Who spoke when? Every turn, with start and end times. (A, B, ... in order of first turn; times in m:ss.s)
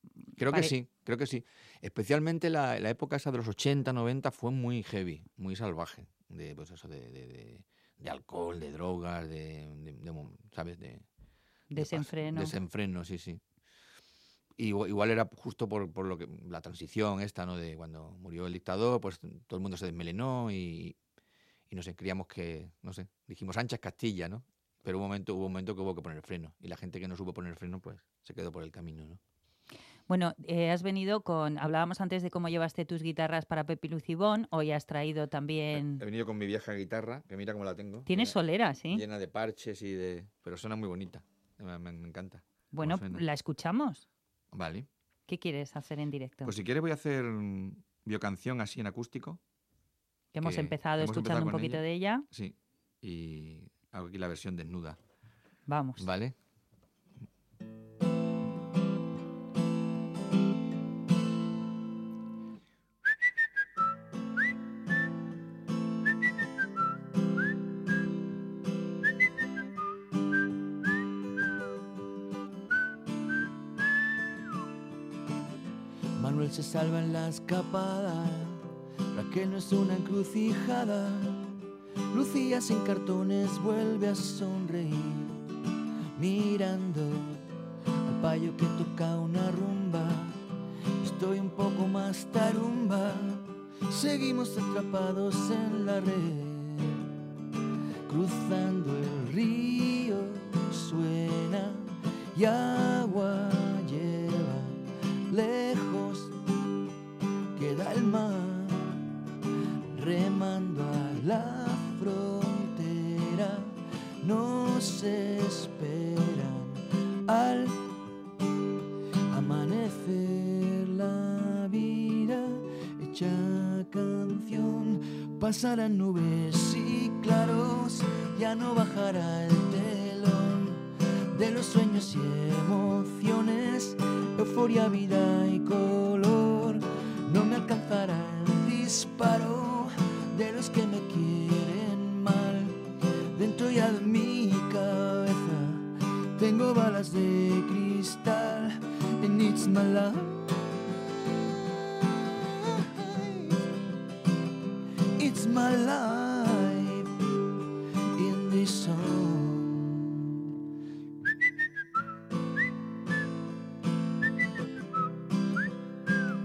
0:00.4-0:11.0 A
0:00.4-0:00.7 B
0:11.7-0:12.5 B
0:11.8-0:13.4 A
0:14.6-0:21.0 A
0:21.7-0:29.2 A
0:30.1-0:36.0 B
0:35.7-0:38.4 A
0:38.1-0:39.0 B
0:38.9-0:43.2 A
0:42.7-0:44.0 B
0:44.5-0:44.9 A
0:45.3-0:46.5 B
0:46.4-0:49.4 A
0:50.3-0:52.2 B
0:50.4-0:55.0 A
0:55.7-0:56.1 B
0:56.0-0:56.4 A
1:16.2-1:21.5 C
1:22.1-1:25.4 C
1:26.2-1:27.4 C
1:28.0-1:30.4 C
1:31.0-1:37.1 C
1:38.1-1:46.3 C
1:47.6-1:49.1 C
1:49.9-1:57.8 C
1:59.3-2:22.8 C
2:23.3-2:30.6 C
2:32.4-2:33.7 C
2:35.2-2:37.1 C
2:38.1-2:40.4 C